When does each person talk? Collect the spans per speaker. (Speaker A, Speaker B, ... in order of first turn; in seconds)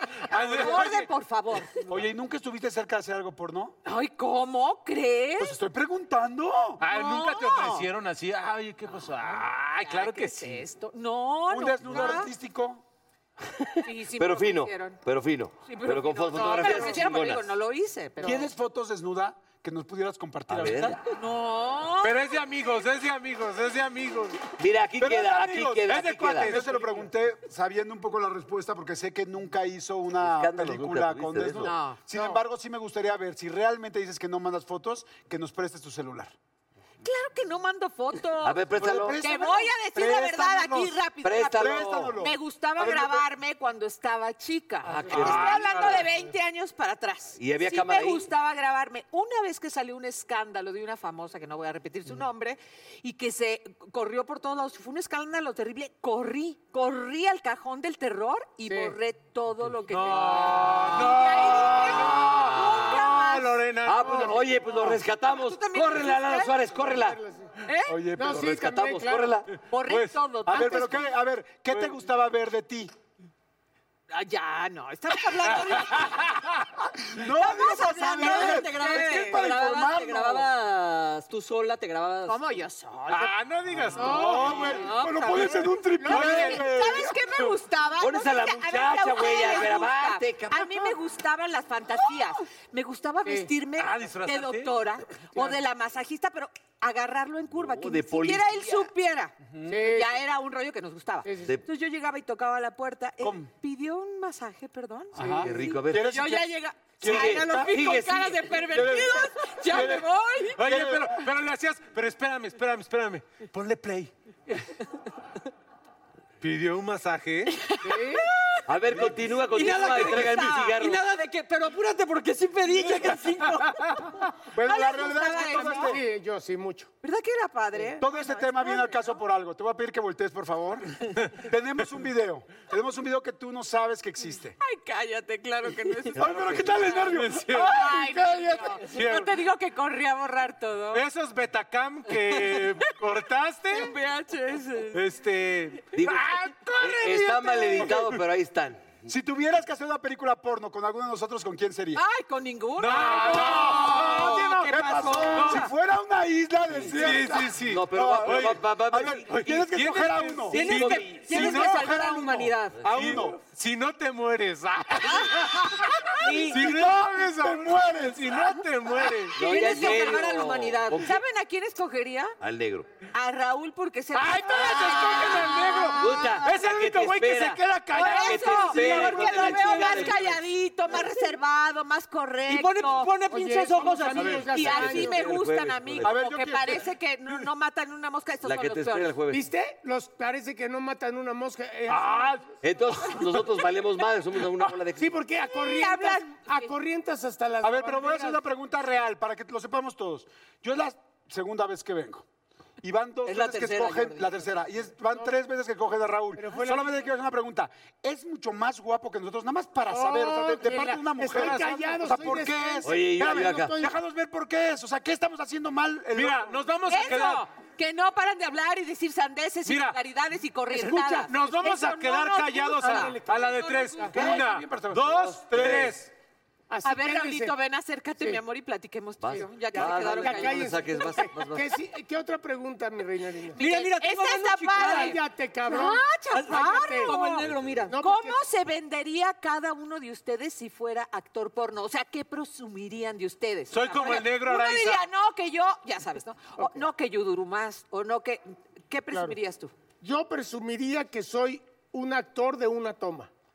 Speaker A: 0.3-1.1, 6.8-10.7, 22.0-24.4, 25.9-27.0, 45.2-46.1, 59.9-64.5, 69.5-70.2, 75.7-76.6, 83.1-84.8, 86.2-86.5, 93.8-94.8, 110.6-114.1, 116.4-117.7, 137.1-137.8, 138.8-139.3, 140.9-143.9, 144.9-148.2, 152.8-154.5, 155.3-155.6, 156.9-158.6, 159.2-162.0, 162.8-169.5, 174.1-180.1, 211.3-211.6, 216.1-217.5, 219.7-220.0, 220.7-226.1, 243.7-245.1
Speaker B: 0.3-0.9, 1.9-3.8, 5.4-6.8, 11.5-12.8, 18.2-21.0, 25.0-36.3, 38.8-41.0, 41.5-43.3, 67.9-68.6, 70.5-72.9, 77.1-80.5, 84.0-87.2, 99.5-99.9, 103.2-103.5, 105.1-108.0, 108.7-111.2, 124.5-126.0, 128.0-134.6, 136.2-138.8, 149.1-152.0, 153.2-163.4, 166.5-168.7, 184.2-184.4, 186.0-186.9, 191.9-192.4, 197.6-202.2, 202.8-216.6, 224.1-226.0
Speaker C: 0.3-1.8, 3.9-5.6, 6.8-7.9, 9.3-12.3, 13.8-15.0, 15.7-18.5, 21.1-22.4, 31.6-32.3, 37.0-63.6, 65.3-66.6, 67.7-68.0, 69.7-71.1, 74.1-76.3, 77.2-79.5, 82.3-83.4, 84.0-110.6, 117.5-118.6, 119.5-120.6, 124.6-126.0, 127.0-129.2, 134.6-141.0, 142.3-142.6, 143.7-145.0, 151.9-155.7, 169.4-170.4, 170.9-172.3, 173.1-176.5, 177.9-183.2, 183.8-189.1, 195.5-196.7, 216.9-224.4, 226.8-230.8, 233.6-249.7
Speaker D: 14.1-17.5, 20.5-21.0, 24.6-26.6, 30.2-31.8, 38.4-39.2, 41.2-42.1, 44.8-46.0, 47.4-48.3, 61.9-63.2, 63.8-67.2, 68.2-69.5, 88.0-90.9, 97.5-98.9, 105.2-106.2, 107.0-108.6, 118.7-121.0, 136.2-136.9, 145.9-149.0, 156.7-159.6, 160.5-161.5, 162.8-163.2, 169.3-171.2, 172.4-172.9, 175.9-180.4, 184.6-186.2, 188.4-189.5, 192.6-195.2, 212.8-213.7, 225.6-225.8, 229.2-231.8, 237.4-237.8
Speaker E: 16.4-16.9, 58.7-59.0, 66.7-67.5, 68.2-69.4, 70.5-70.8, 83.9-84.7, 86.0-86.5, 99.7-100.1, 101.2-101.5, 117.8-118.2, 125.6-126.9, 180.9-181.2, 183.3-185.2, 189.3-192.3, 195.0-198.4, 206.4-207.0, 209.9-213.9, 222.8-224.1, 226.7-227.5, 229.3-233.6, 234.2-237.2, 237.9-238.4, 246.6-246.8, 249.1-249.4, 250.0-253.3
Speaker F: 77.6-82.4, 119.5-123.9, 153.9-155.7, 160.5-162.9, 166.2-166.7, 169.4-171.1, 182.5-184.5, 203.2-204.5, 233.6-235.2, 236.3-237.9